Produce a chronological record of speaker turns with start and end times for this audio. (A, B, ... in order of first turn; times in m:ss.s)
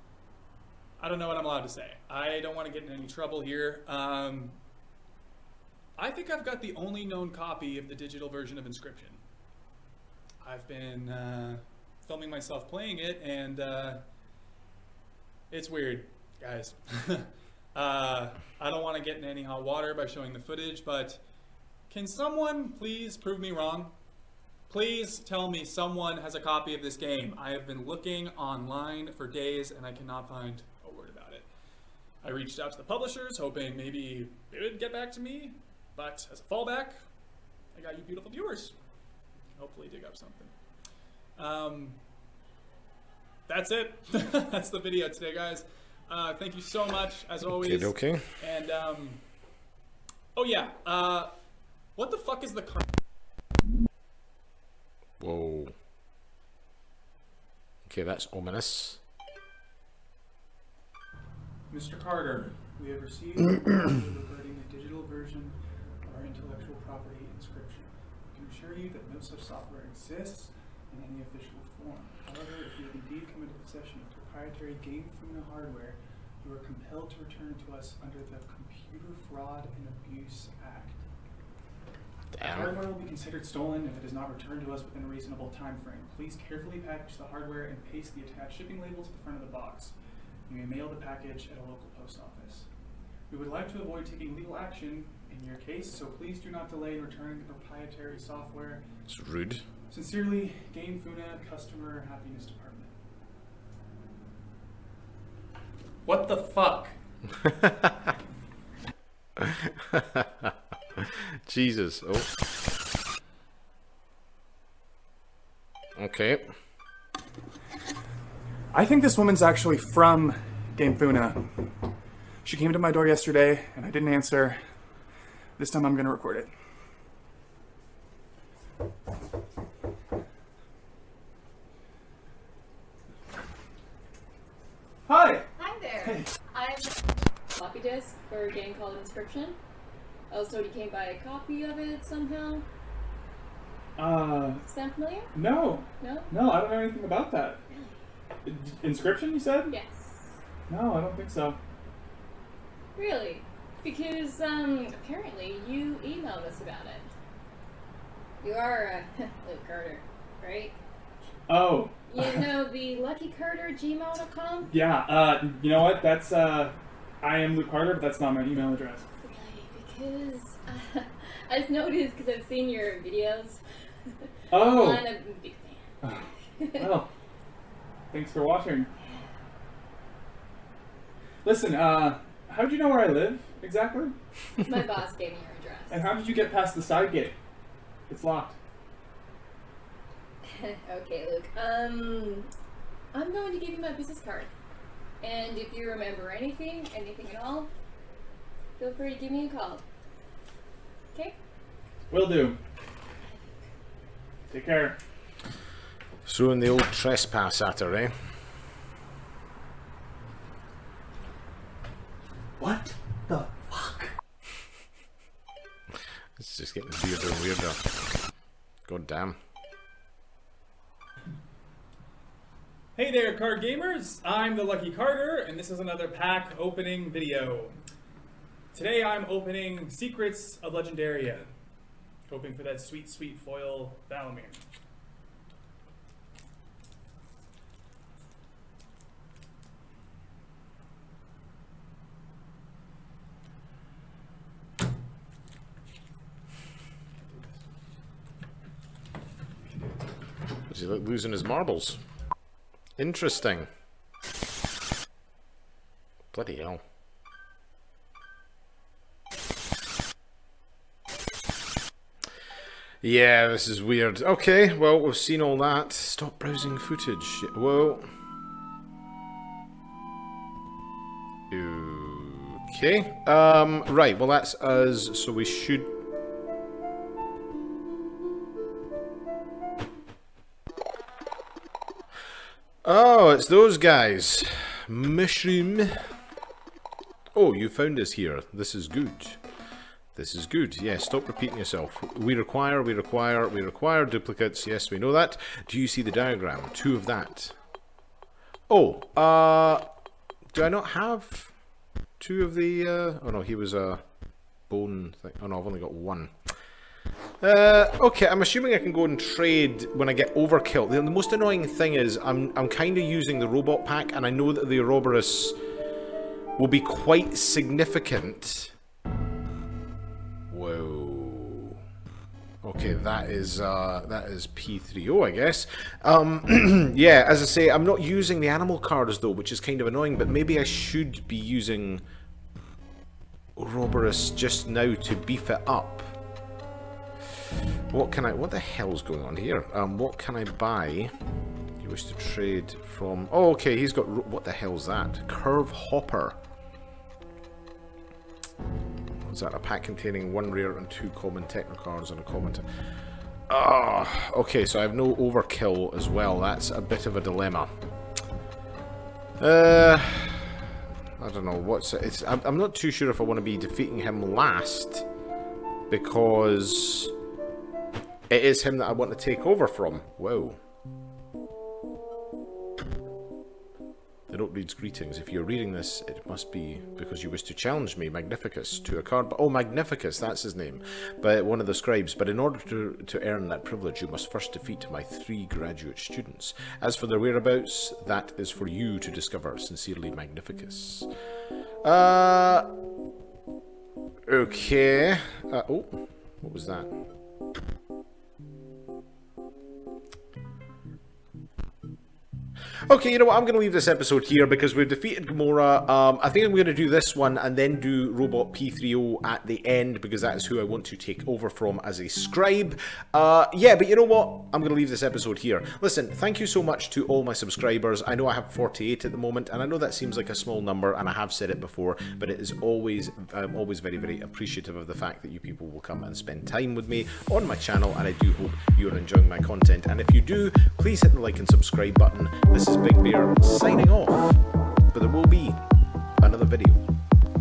0:01.0-0:04.6 A
0:06.0-0:09.2 A
0:10.4-0:14.0 A
0:15.5-0:21.2 A
0:21.9-0:23.9 A
0:24.7-0:31.5 A
0:32.2-0:37.0 A
0:37.7-0:38.8 A
0:39.5-0:40.5 A
0:41.4-0:42.0 A
0:43.5-0:49.2 A
0:47.5-0:48.3 B
0:50.3-0:51.3 A
0:51.9-0:52.9 A
0:55.2-0:55.7 B
0:57.8-0:59.0 B
1:01.7-1:21.0 A
1:22.3-1:22.8 B
1:22.4-1:29.9 A
1:30.5-1:32.7 A
1:33.3-1:38.8 A
1:39.1-1:39.6 B
1:39.9-1:42.9 A
1:46.0-1:46.9 A
1:47.6-1:47.9 B
1:49.4-1:52.3 B
1:56.0-1:56.5 B
1:58.7-2:01.6 A
2:02.4-2:04.6 A
2:05.6-2:06.5 A
2:15.0-2:15.5 A
2:15.6-2:16.8 C
2:16.0-2:16.3 A
2:17.5-2:19.6 C
2:20.3-2:22.6 C
2:24.0-2:24.6 A
2:24.7-2:25.3 C
2:25.3-2:27.6 A
2:26.0-2:26.3 C
2:27.7-2:28.0 C
2:28.4-2:29.7 A
2:29.7-2:30.3 C
2:30.7-2:31.6 A
2:33.0-2:37.1 C
2:38.4-2:40.8 C
2:41.5-2:42.2 A
2:42.1-2:44.7 C
2:44.7-2:49.0 A
2:49.2-2:55.8 C
2:54.5-2:55.0 A
2:56.6-2:56.9 C
2:56.8-2:57.1 A
2:58.1-2:58.9 A
3:01.4-3:04.1 A
3:04.6-3:06.0 C
3:05.9-3:07.3 A
3:08.1-3:08.6 A
3:10.4-3:12.5 C
3:13.1-3:14.5 C
3:15.2-3:17.7 C
3:18.8-3:19.8 C
3:22.1-3:22.6 A
3:24.5-3:25.0 A
3:26.2-3:28.1 B
3:32.6-3:34.1 A
3:36.4-3:37.9 B
3:38.9-3:39.4 B
3:43.0-3:47.8 A
3:48.7-3:51.5 A
3:52.3-3:54.6 A
4:07.2-4:07.6 A
4:10.7-4:12.0 B
4:13.0-4:13.7 B
4:16.3-4:16.8 B
4:23.0-4:28.1 B
4:31.5-4:35.9 B
4:42.8-4:46.0 B
4:47.3-4:49.4 B
4:50.1-4:57.6 B
4:58.7-4:59.9 B
5:00.5-5:01.5 B
5:02.2-5:04.0 B
5:04.7-5:06.3 B
5:07.4-5:15.6 B
5:16.6-5:18.7 B
5:20.5-5:21.8 B
5:22.6-5:32.0 B
5:33.6-5:36.1 B
5:37.9-5:41.1 B
5:41.8-5:46.4 B
5:49.2-5:52.6 B
5:53.5-5:57.7 B
5:59.4-6:00.6 B
6:01.2-6:05.0 B
6:05.9-6:07.1 B
6:08.3-6:10.6 B
6:14.3-6:31.1 B
6:31.8-6:32.7 B
6:34.3-6:36.9 B
6:42.9-7:15.6 B
7:16.2-7:16.8 B